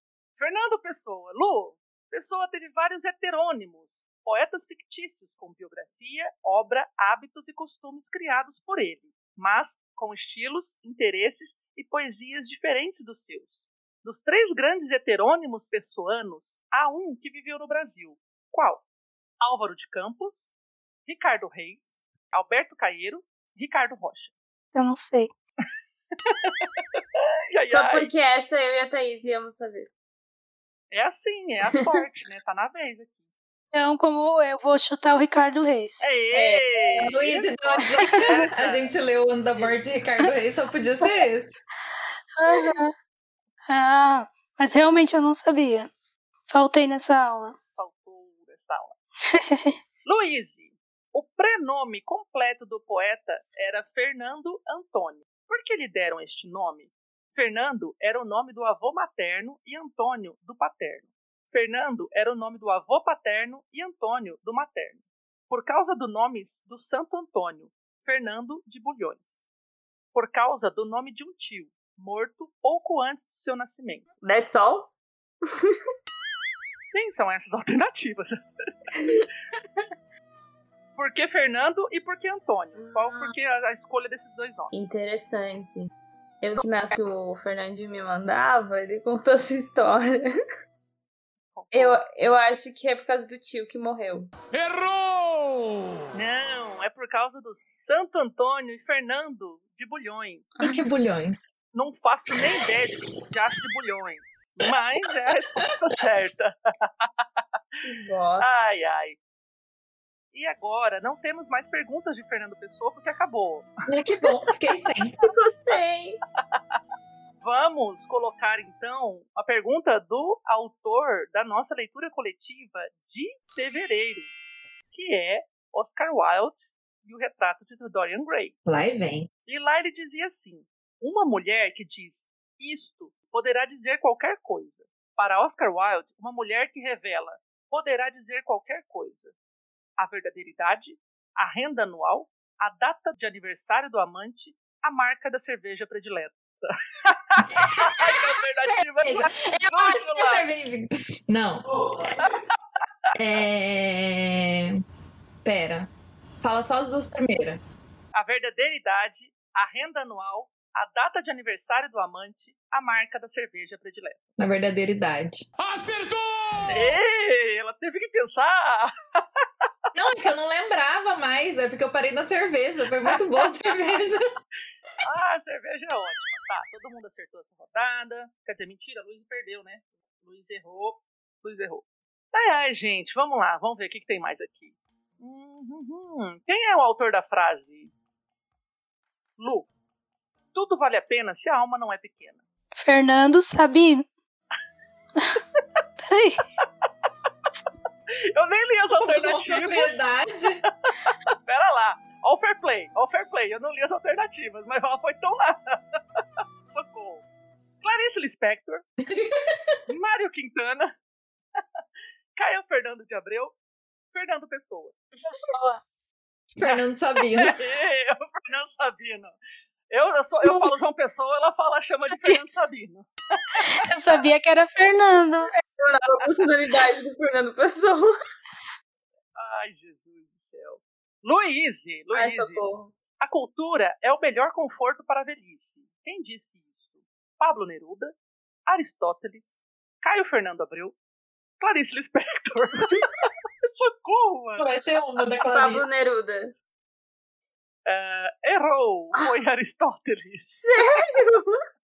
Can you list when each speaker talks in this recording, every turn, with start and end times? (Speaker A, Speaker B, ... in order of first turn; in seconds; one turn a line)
Speaker A: 0.4-18.8
Speaker A: 19.4-20.5
Speaker A: 21.1-24.3
Speaker B: 24.8-25.3
Speaker A: 26.2-28.1
Speaker C: 27.7-29.9
Speaker A: 30.9-33.2
Speaker B: 33.7-36.0
Speaker A: 36.0-37.5
Speaker C: 36.3-37.1
Speaker D: 37.0-41.6
Speaker A: 38.2-38.9
Speaker B: 42.4-42.9
Speaker B: 43.7-45.9
Speaker B: 46.5-47.6
Speaker A: 47.8-49.0
Speaker B: 49.4-49.8
Speaker A: 50.0-69.5
Speaker A: 70.1-74.1
Speaker C: 74.2-74.9
Speaker A: 76.8-78.5
Speaker C: 79.0-79.3
Speaker A: 81.0-85.0
Speaker C: 82.8-83.3
Speaker C: 84.7-85.9
Speaker C: 86.4-90.2
Speaker A: 91.5-92.0
Speaker C: 91.7-94.3
Speaker E: 94.5-96.2
Speaker A: 96.1-100.6
Speaker D: 100.6-101.5
Speaker A: 101.7-107.4
Speaker C: 107.8-108.7
Speaker A: 108.4-109.2
Speaker A: 110.3-113.7
Speaker D: 113.9-115.2
Speaker C: 115.2-116.2
Speaker A: 117.4-124.3
Speaker A: 124.9-128.6
Speaker D: 128.7-129.3
Speaker A: 129.5-139.3
Speaker A: 140.0-150.4
Speaker D: 147.6-148.2
Speaker D: 149.0-151.7
Speaker D: 153.2-154.8
Speaker D: 155.4-157.6
Speaker A: 158.1-164.2
Speaker D: 164.4-165.5
Speaker E: 165.6-166.9
Speaker A: 166.7-168.9
Speaker D: 169.9-174.2
Speaker A: 175.0-187.9
Speaker A: 189.4-189.7
Speaker A: 190.5-192.4
Speaker B: 192.8-194.1
Speaker B: 196.0-196.4
Speaker A: 198.3-200.0
Speaker D: 199.0-200.6
Speaker A: 201.1-206.0
Speaker A: 206.7-207.2
Speaker A: 207.8-208.8
Speaker D: 209.1-209.8
Speaker A: 209.9-210.9
Speaker A: 212.3-213.6
Speaker A: 214.1-215.0
Speaker B: 215.2-215.8
Speaker D: 216.6-217.6
Speaker A: 217.4-219.4
Speaker A: 219.9-223.6
Speaker B: 220.4-220.7
Speaker B: 222.1-222.4
Speaker B: 223.7-225.5
Speaker C: 225.6-228.1
Speaker A: 229.4-232.6
Speaker C: 232.1-232.9
Speaker A: 233.2-238.1
Speaker A: 238.7-240.9
Speaker A: 241.6-244.7
Speaker D: 244.6-245.9
Speaker C: 245.4-246.5
Speaker A: 247.9-250.6
Speaker C: 250.6-251.6